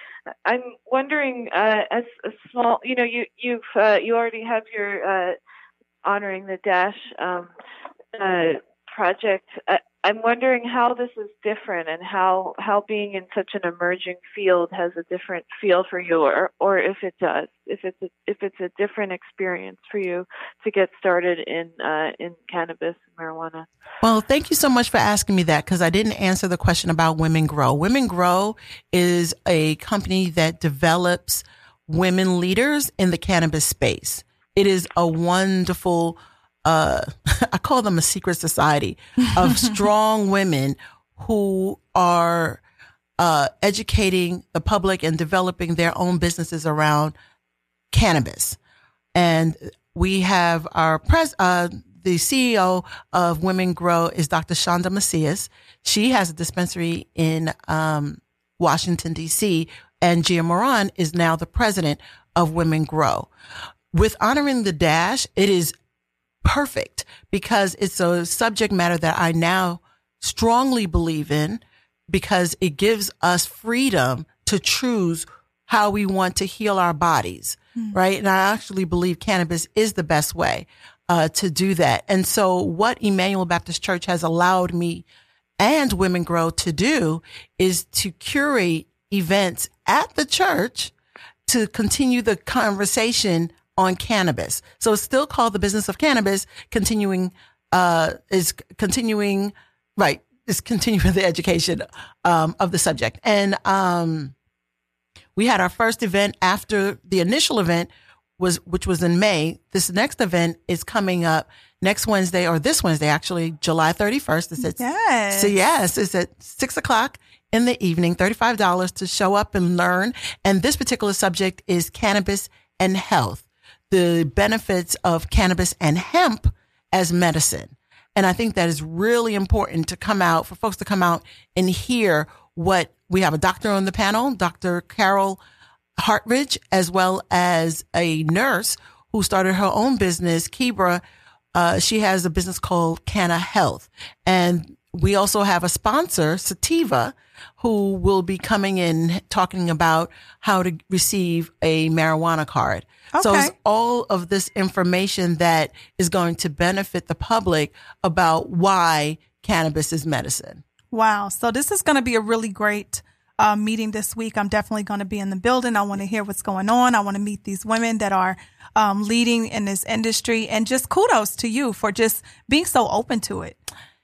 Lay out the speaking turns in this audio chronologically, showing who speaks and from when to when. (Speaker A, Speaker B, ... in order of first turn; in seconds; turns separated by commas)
Speaker A: 0.4-5.3, Speaker A: 6.0-7.5, Speaker A: 8.1-23.7, Speaker B: 24.0-42.6, Speaker C: 39.2-39.8, Speaker B: 43.2-47.1, Speaker B: 47.9-48.6, Speaker B: 49.1-63.3, Speaker B: 63.9-65.7, Speaker B: 66.4-85.0, Speaker B: 85.6-90.9, Speaker B: 91.5-104.3, Speaker B: 105.3-135.4, Speaker C: 114.6-115.5, Speaker B: 136.0-141.0, Speaker B: 141.5-160.6, Speaker C: 153.1-153.5, Speaker C: 160.9-173.6